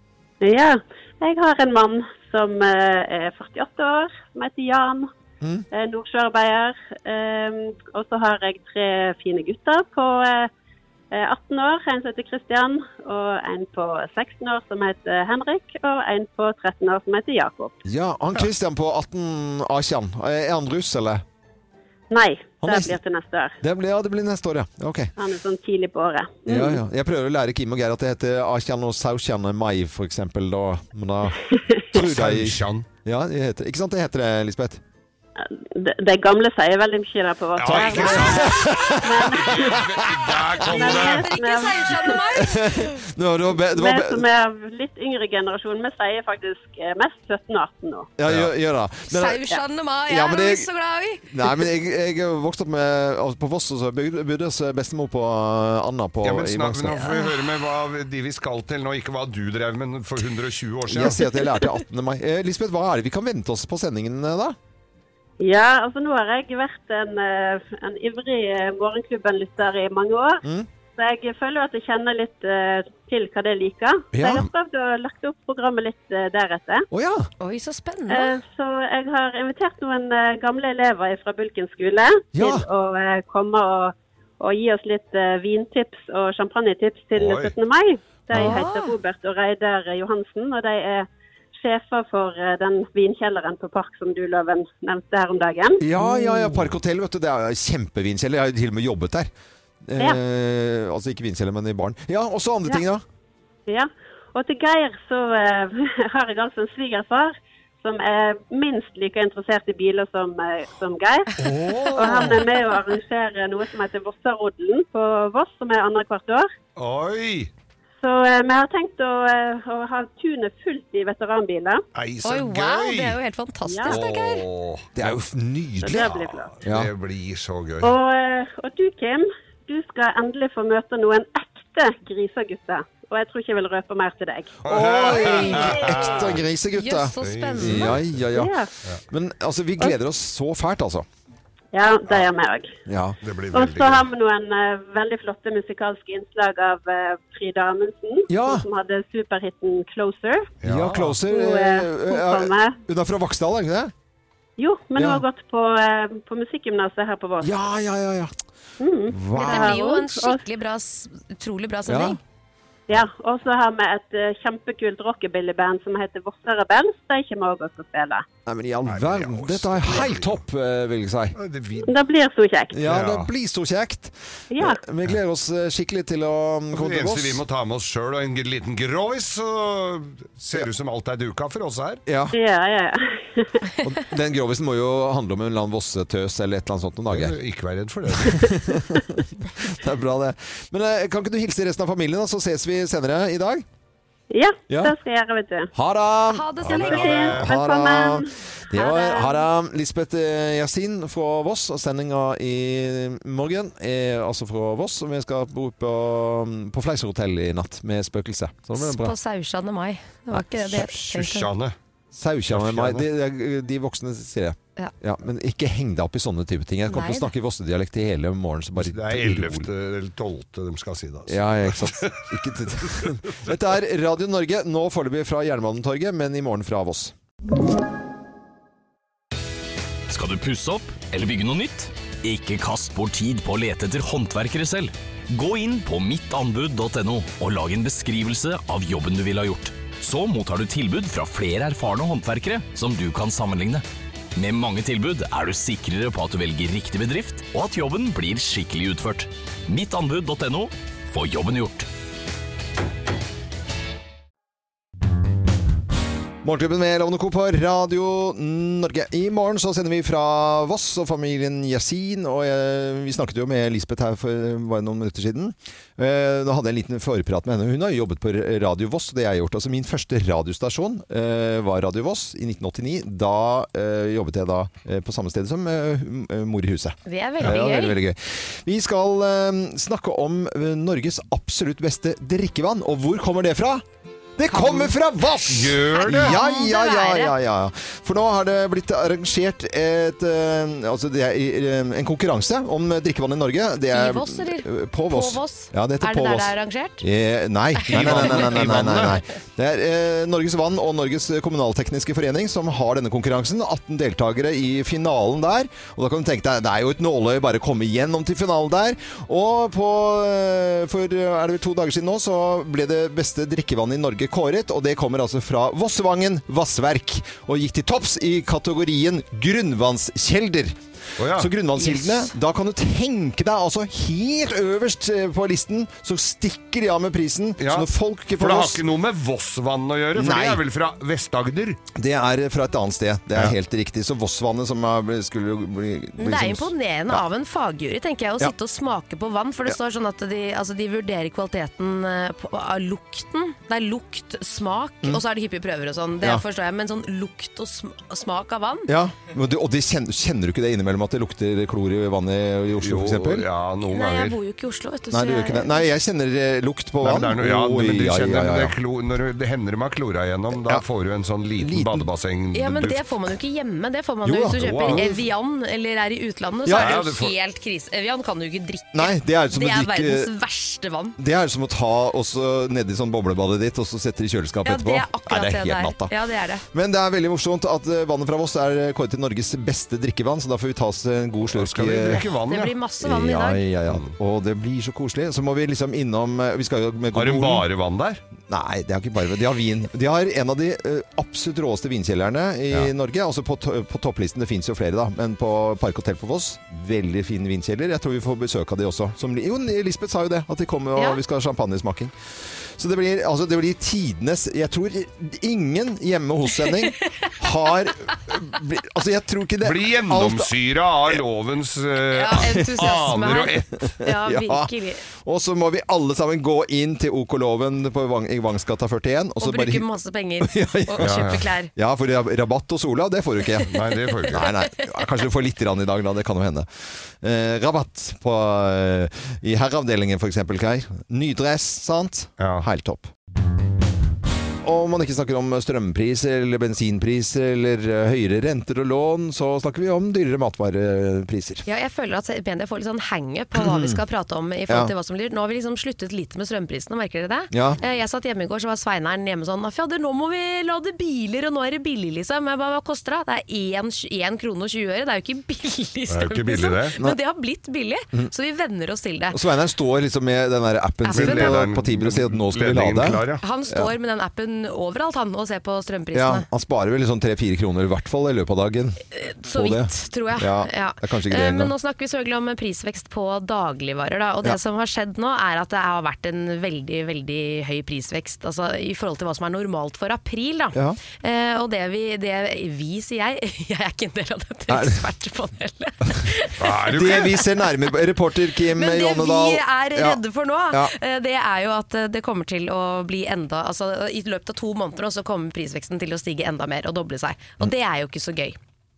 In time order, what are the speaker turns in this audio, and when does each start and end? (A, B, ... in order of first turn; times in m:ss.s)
0:00.4-0:05.1 A
0:05.4-0:05.7 B
0:05.7-0:10.5 A
0:11.1-0:17.8 A
0:17.8-0:21.2 B
0:22.1-0:23.6 A
0:22.6-0:23.0 B
0:23.6-0:25.1 B
0:25.2-0:26.8 A
0:26.5-0:31.4 B
0:31.9-0:34.8 B
0:32.0-0:32.9 C
0:35.4-0:39.9 A
0:37.6-0:41.3 C
0:37.7-0:40.3 B
0:40.6-0:42.2 A
0:40.8-0:43.0 D
0:42.4-0:44.2 B
0:43.7-0:48.1 A
0:48.2-0:49.4 B
0:48.3-0:48.5 C
0:49.1-0:51.5 D
0:50.1-0:50.7 B
0:51.3-0:57.2 B
0:56.2-1:01.2 C
1:00.9-1:04.6 B
1:05.4-1:10.4 A
1:11.0-1:16.9 A
1:14.1-1:14.5 B
1:16.9-1:17.3 B
1:17.4-1:18.4 D
1:18.1-1:35.8 A
1:22.3-1:22.7 B
1:27.2-1:27.5 C
1:28.3-1:29.0 D
1:28.4-1:28.6 B
1:35.8-1:39.3 B
1:36.0-1:36.5 D
1:39.9-1:43.0 B
1:43.7-1:51.4 A
1:51.4-1:52.4 C
1:52.0-1:56.5 A
1:56.8-1:57.5 C
1:58.0-2:01.8 A
2:02.0-2:03.2 C
2:02.2-2:04.4 D
2:03.7-2:04.0 A
2:03.8-2:05.1 C
2:05.0-2:06.1 B
2:05.8-2:06.5 A
2:05.9-2:08.0 C
2:07.8-2:14.6 A
2:14.6-2:16.4 C
2:14.7-2:18.6 B
2:16.7-2:18.0 D
2:17.2-2:18.2 C
2:18.3-2:18.7 A
2:19.1-2:21.1 B
2:21.7-2:22.7 A
2:22.9-2:23.2 B
2:23.2-2:24.1 C
2:23.5-2:30.5 A
2:28.3-2:28.6 B
2:30.6-2:31.2 C
2:30.6-2:33.9 B
2:31.3-2:32.8 A
2:34.6-2:37.5 A
2:35.0-2:35.2 B
2:37.4-2:38.3 B
2:38.8-2:40.4 A
2:39.1-2:39.8 B
2:39.4-2:42.2 D
2:41.9-2:42.2 B
2:42.9-2:48.2 A
2:48.5-2:51.4 B
2:48.8-2:50.4 C
2:51.4-2:51.9 C
2:51.8-2:52.8 A
2:52.7-2:57.4 B
2:52.8-2:53.3 C
2:54.5-2:54.8 A
2:56.7-3:02.0 C
3:02.1-3:02.4 B
3:02.3-3:03.6 A
3:03.8-3:07.4 B
3:07.1-3:08.5 C
3:08.2-3:13.6 B
3:14.3-3:15.7 A
3:14.7-3:14.9 B
3:15.8-3:16.6 B
3:16.3-3:17.4 D
3:16.6-3:17.6 C
3:16.7-3:18.3 A
3:17.1-3:29.2 B
3:18.7-3:19.4 D
3:28.8-3:31.5 D
3:30.7-3:31.8 C
3:32.1-3:39.7 B
3:32.5-3:33.0 C
3:36.9-3:37.3 D
3:38.8-3:42.3 C
3:41.3-3:47.1 B
3:42.8-3:43.2 C
3:50.1-4:03.8 E
4:04.4-4:11.9 E
4:16.4-4:43.8 B
4:37.1-4:38.0 D
4:44.4-5:28.8 B
4:44.5-4:44.9 D
4:45.5-4:46.4 C
4:46.0-4:47.3 D
4:53.9-4:57.0 D
4:57.8-4:58.6 D
4:57.9-4:59.2 C
5:21.2-5:21.5 C
5:21.8-5:22.3 D
5:27.6-5:31.8 C
5:30.2-5:30.6 B
5:32.0-5:37.2 B
5:36.2-5:48.9 D
5:48.9-5:53.5 B
5:52.8-5:54.4 C
5:53.9-5:55.9 D
5:55.1-5:58.8 B
5:57.0-6:03.0 C
6:01.6-6:02.1 B
6:02.5-6:11.2 D
6:04.2-6:05.2 B
6:04.6-6:05.1 C
6:06.7-6:07.0 B
6:06.7-6:07.3 C
6:08.9-6:10.3 B
6:11.2-6:16.1 B
6:14.6-6:16.6 D
6:16.7-6:22.3 B
6:21.5-6:22.7 C
6:22.1-6:23.6 D
6:23.0-6:27.7 B
6:23.9-6:24.1 C
6:27.1-6:28.2 C
6:28.5-6:42.1 B
6:42.8-6:50.5 B
6:49.6-6:53.8 C
6:52.1-6:55.0 D
6:52.4-6:52.9 B
6:53.8-6:59.9 B
6:59.4-7:01.7 D
7:00.4-7:06.7 B
7:01.0-7:01.4 C
7:03.6-7:04.5 C
7:07.2-7:13.1 B
7:12.4-7:12.6 C
7:14.6-7:21.6 B
7:21.7-7:39.4 D
7:23.6-7:24.0 B
7:27.5-7:27.8 B
7:36.1-7:37.0 C
7:39.3-7:43.9 B
7:41.0-7:41.6 D
7:41.1-7:43.4 C
7:43.4-7:46.5 D
7:46.1-7:51.7 B
7:49.1-8:07.2 D
8:04.7-8:05.0 B
8:06.6-8:07.4 C
8:06.9-8:10.2 B
8:08.7-8:18.6 D